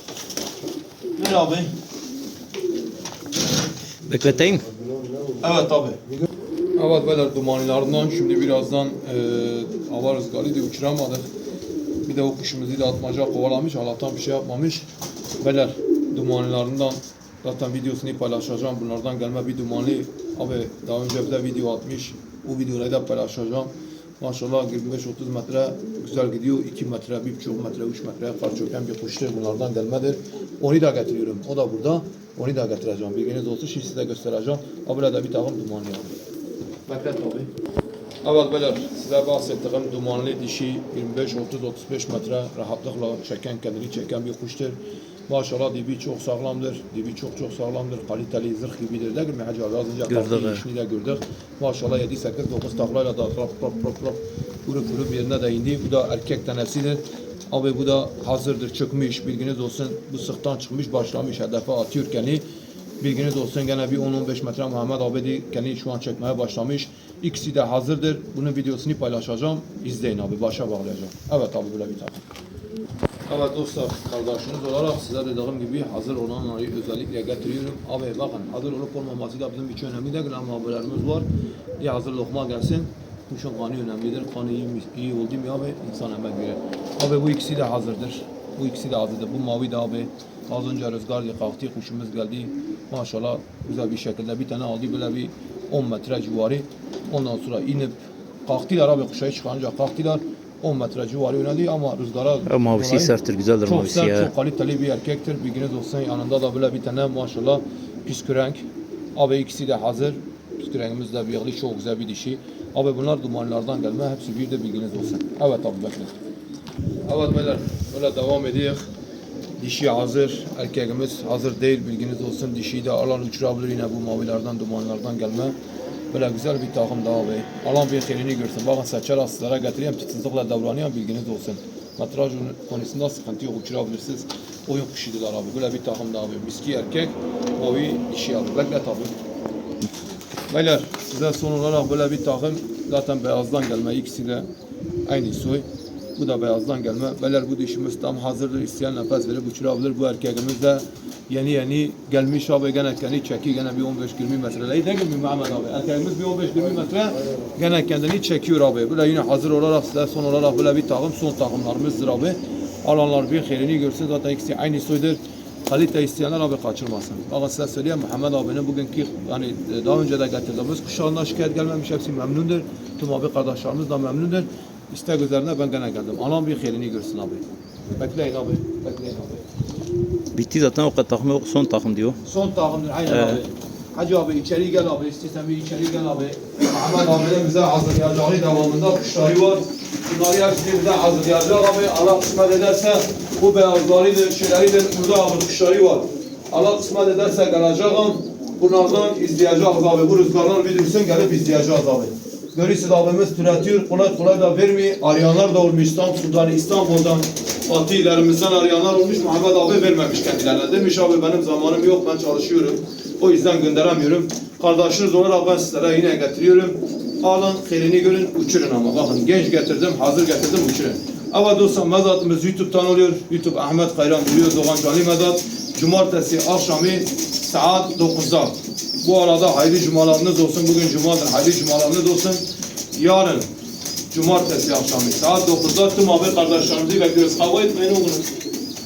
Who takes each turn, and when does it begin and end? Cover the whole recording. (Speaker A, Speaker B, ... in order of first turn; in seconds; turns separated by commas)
Speaker A: 1.2-1.7, Speaker B: 4.1-4.7, Speaker A: 5.4-6.0, Speaker A: 6.8-11.2, Speaker A: 12.0-14.9, Speaker A: 15.4-36.1, Speaker A: 36.9-37.5, Speaker A: 38.2-62.4, Speaker B: 50.1-50.6, Speaker A: 63.0-72.2, Speaker A: 73.3-81.2, Speaker A: 81.8-116.1, Speaker B: 102.5-104.3, Speaker A: 117.0-118.9, Speaker A: 119.6-125.6, Speaker A: 126.1-139.1, Speaker A: 140.5-144.5, Speaker A: 145.1-177.4, Speaker A: 177.9-179.4, Speaker B: 180.3-182.2, Speaker A: 182.2-233.5, Speaker B: 183.1-183.4, Speaker A: 234.1-238.3